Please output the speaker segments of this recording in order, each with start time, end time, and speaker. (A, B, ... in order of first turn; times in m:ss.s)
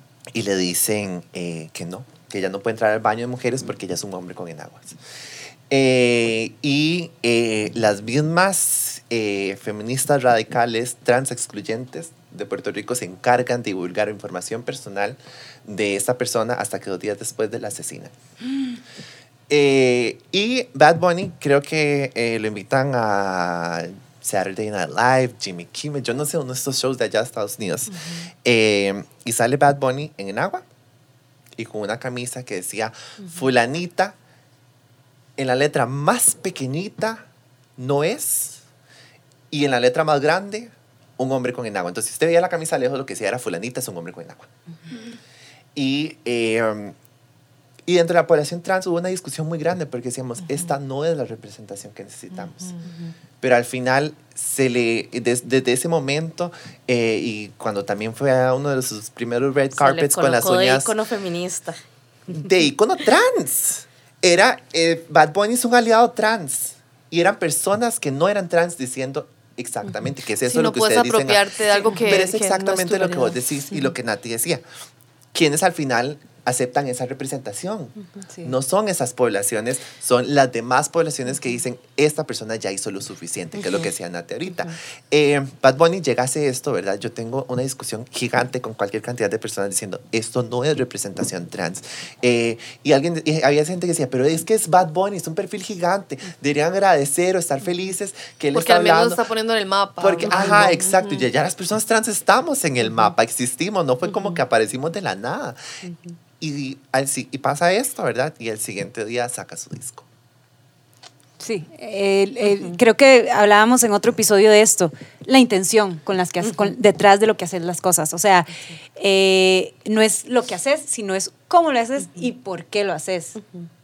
0:00.3-0:05.0 A
0:05.7-0:18.1 A
0:19.5-0:30.6 A
0:31.6-0:34.2 A
0:35.4-0:37.2 A
0:37.8-0:38.6 A
0:39.5-0:44.5 A
0:45.8-0:47.0 A
0:47.9-0:52.8 A
0:53.4-1:00.9 A
0:59.7-1:01.8 B
1:02.3-1:14.6 A
1:10.5-1:13.9 C
1:15.3-1:39.2 A
1:23.6-1:23.9 B
1:38.5-1:41.1 C
1:40.0-1:45.6 A
1:46.4-1:50.1 A
1:51.4-2:03.4 D